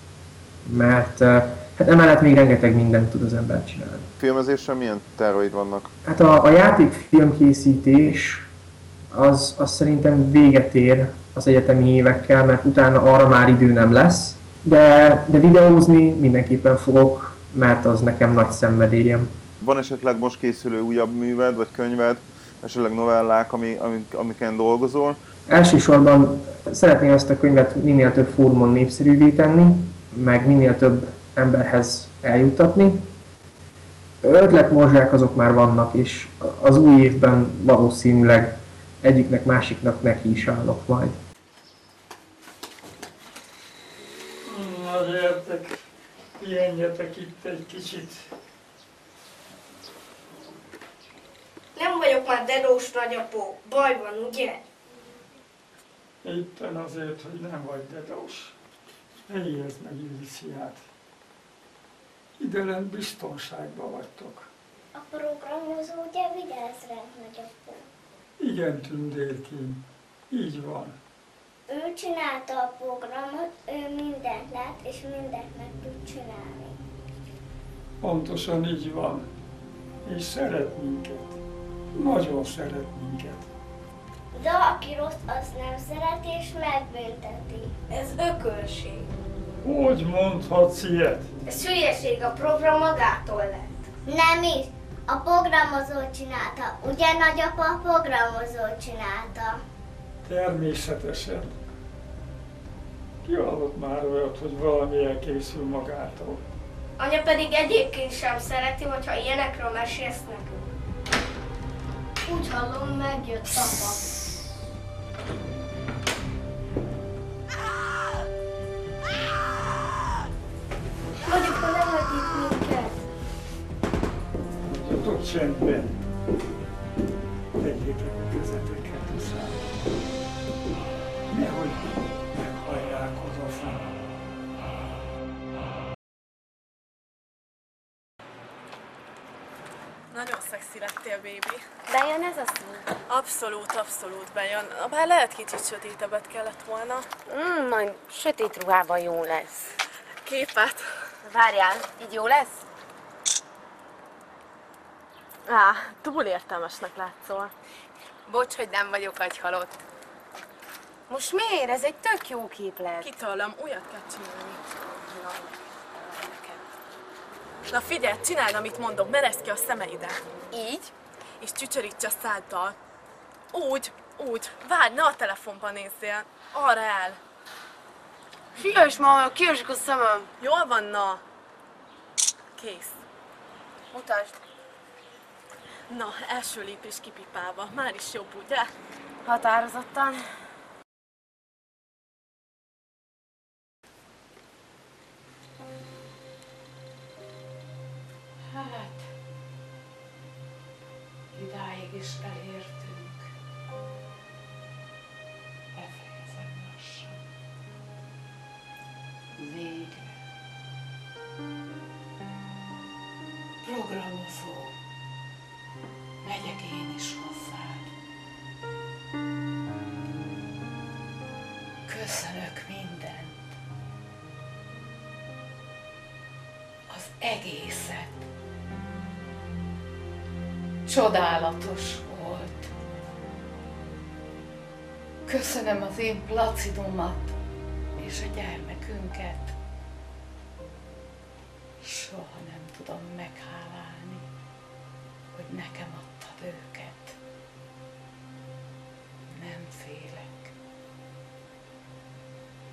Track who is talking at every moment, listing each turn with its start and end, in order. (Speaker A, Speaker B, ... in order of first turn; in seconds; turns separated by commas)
Speaker A: 0.6-4.1, Speaker B: 4.2-5.9, Speaker A: 6.1-8.4, Speaker A: 9.1-19.3, Speaker B: 19.6-25.2, Speaker A: 25.5-33.1, Speaker A: 34.2-38.5, Speaker A: 39.0-41.2, Speaker C: 44.5-45.8, Speaker C: 46.4-48.2, Speaker D: 51.8-54.5, Speaker C: 56.2-58.6, Speaker C: 59.3-60.9, Speaker C: 62.4-64.5, Speaker E: 64.9-67.9, Speaker C: 68.4-71.0, Speaker E: 71.7-76.8, Speaker C: 78.0-79.2, Speaker C: 80.0-81.4, Speaker C: 81.9-83.5, Speaker E: 84.3-87.7, Speaker D: 87.9-89.0, Speaker C: 89.6-91.5, Speaker D: 91.5-93.7, Speaker E: 94.1-99.6, Speaker C: 100.2-101.6, Speaker C: 103.2-106.4, Speaker D: 107.0-110.6, Speaker D: 112.5-114.1, Speaker C: 124.7-126.0, Speaker C: 127.6-129.6, Speaker C: 131.3-133.9, Speaker F: 140.1-141.7, Speaker G: 141.9-142.9, Speaker F: 143.1-147.2, Speaker G: 147.2-149.7, Speaker F: 150.2-150.8, Speaker G: 151.2-152.6, Speaker F: 155.5-157.5, Speaker G: 158.3-159.8, Speaker G: 161.1-163.1, Speaker F: 163.0-164.9, Speaker G: 165.1-166.6, Speaker F: 167.7-170.2, Speaker G: 170.5-170.9, Speaker F: 171.4-172.8, Speaker F: 173.5-177.2, Speaker G: 178.8-180.3, Speaker F: 180.4-181.2, Speaker F: 182.6-183.0, Speaker G: 183.9-184.2, Speaker F: 185.9-188.7, Speaker G: 189.2-190.2, Speaker H: 198.5-199.1, Speaker H: 201.3-203.3, Speaker H: 205.7-207.2, Speaker H: 209.4-210.2, Speaker H: 213.6-214.7, Speaker H: 216.2-217.9, Speaker H: 221.9-223.4, Speaker H: 226.9-228.2, Speaker H: 230.9-232.7, Speaker H: 235.2-237.4, Speaker H: 238.0-239.5, Speaker H: 241.8-244.3, Speaker H: 245.3-247.2, Speaker H: 249.3-250.5